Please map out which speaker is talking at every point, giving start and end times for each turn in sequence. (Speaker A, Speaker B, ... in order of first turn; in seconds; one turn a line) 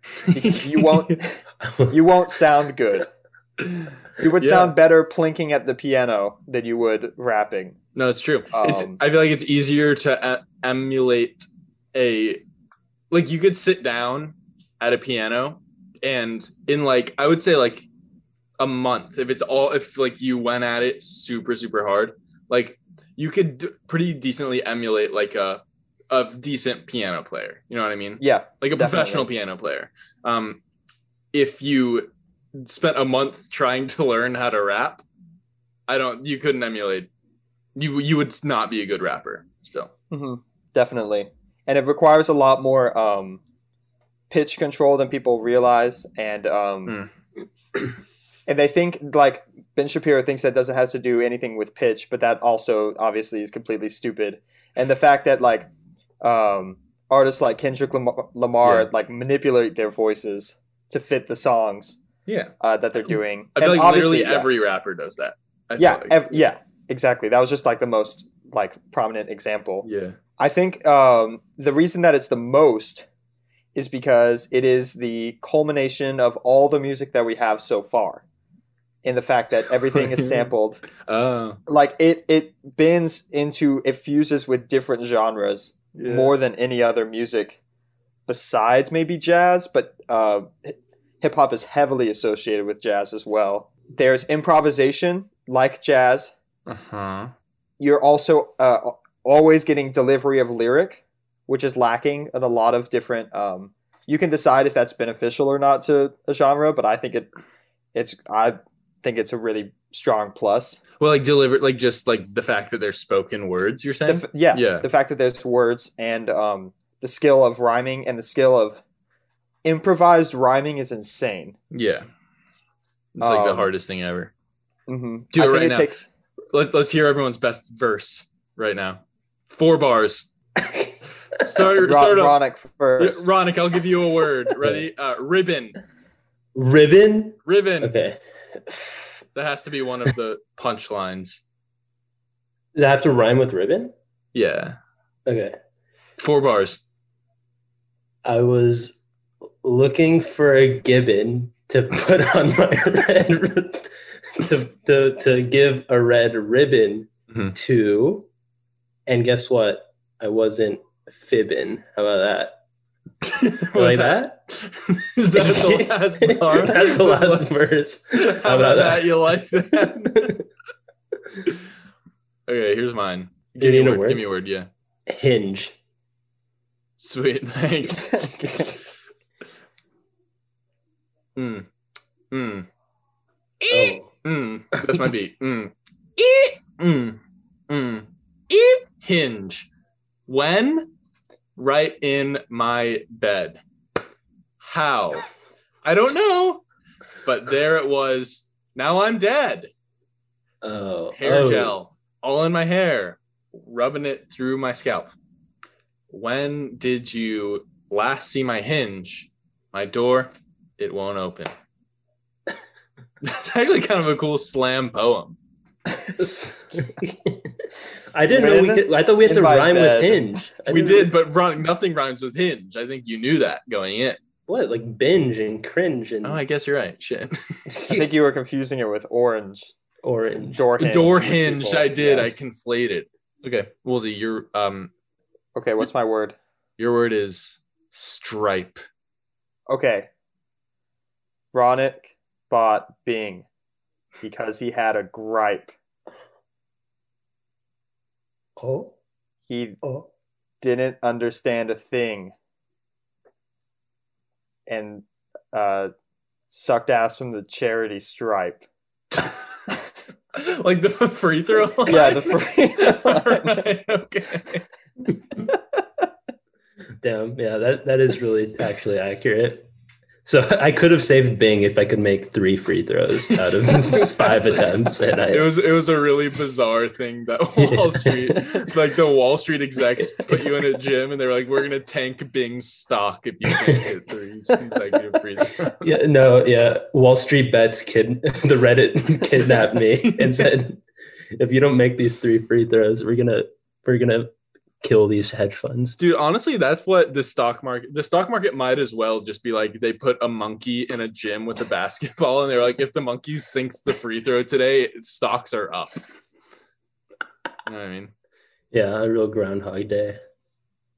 Speaker A: 0.2-1.2
Speaker B: 0.3-3.1
Speaker C: 1.6-1.9
Speaker A: 3.6-4.7
Speaker B: 4.2-7.8
Speaker A: 8.0-12.4
Speaker B: 8.5-9.0
Speaker A: 13.1-17.9
Speaker A: 18.6-30.6
Speaker B: 28.2-29.3
Speaker A: 31.3-35.0
Speaker A: 35.9-37.1
Speaker A: 37.8-39.9
Speaker B: 40.1-43.4
Speaker B: 44.3-47.0
Speaker B: 48.5-55.7
Speaker B: 56.2-62.0
Speaker A: 58.6-58.9
Speaker A: 62.3-62.5
Speaker B: 62.6-64.5
Speaker A: 63.6-66.2
Speaker B: 65.8-69.9
Speaker A: 69.8-70.2
Speaker B: 70.4-73.1
Speaker B: 73.8-78.2
Speaker B: 79.0-80.8
Speaker A: 79.9-80.5
Speaker A: 81.0-81.6
Speaker B: 81.7-87.6
Speaker A: 86.0-86.3
Speaker B: 88.3-96.3
Speaker A: 96.7-97.3
Speaker B: 97.8-107.3
Speaker B: 108.0-110.8
Speaker A: 111.0-114.9
Speaker B: 114.1-118.8
Speaker B: 119.6-121.6
Speaker A: 121.7-122.1
Speaker A: 123.2-124.3
Speaker B: 123.2-123.7
Speaker B: 124.9-126.1
Speaker A: 125.3-125.9
Speaker A: 126.5-130.3
Speaker A: 131.4-132.4
Speaker B: 131.8-133.3
Speaker A: 133.0-135.8
Speaker C: 136.6-139.1
Speaker A: 137.4-137.9
Speaker A: 139.3-141.4
Speaker C: 142.7-143.9
Speaker A: 144.3-144.8
Speaker C: 145.3-145.6
Speaker A: 146.2-146.8
Speaker C: 148.2-149.0
Speaker C: 149.6-158.3
Speaker C: 159.1-162.6
Speaker A: 163.2-167.6
Speaker C: 163.7-164.4
Speaker C: 165.3-170.4
Speaker A: 168.1-170.3
Speaker A: 172.5-174.7
Speaker C: 173.6-174.2
Speaker C: 175.1-175.8
Speaker A: 177.0-178.1
Speaker B: 177.9-178.8
Speaker A: 181.4-181.7
Speaker A: 182.3-182.7
Speaker A: 183.6-189.7
Speaker C: 183.7-184.1
Speaker A: 190.3-190.9
Speaker A: 191.6-193.6
Speaker A: 194.6-195.3
Speaker A: 195.8-196.6
Speaker A: 197.2-199.7
Speaker C: 200.6-201.8
Speaker A: 201.2-205.1
Speaker A: 206.1-211.5
Speaker A: 213.2-215.4
Speaker C: 216.2-217.6
Speaker C: 218.1-221.1
Speaker B: 218.3-220.4
Speaker A: 220.7-224.2
Speaker C: 224.5-226.4
Speaker A: 226.2-227.4
Speaker B: 227.8-229.7
Speaker C: 230.0-230.7
Speaker B: 230.5-232.3
Speaker A: 230.8-234.9
Speaker B: 235.6-236.4
Speaker A: 236.8-238.8
Speaker B: 239.7-240.1
Speaker B: 241.5-243.5
Speaker B: 244.2-245.7
Speaker C: 248.6-248.9
Speaker B: 249.5-249.8
Speaker B: 250.6-252.3
Speaker B: 254.7-255.9
Speaker B: 256.5-258.6
Speaker A: 260.3-264.6
Speaker B: 261.9-263.6
Speaker C: 267.0-269.7
Speaker C: 270.2-275.5
Speaker A: 273.3-286.0
Speaker C: 277.6-278.4
Speaker C: 280.0-280.7
Speaker C: 283.5-283.9
Speaker C: 285.8-290.8
Speaker A: 289.4-290.5
Speaker C: 291.4-296.0
Speaker A: 296.0-306.0
Speaker A: 307.7-308.1
Speaker C: 308.7-310.2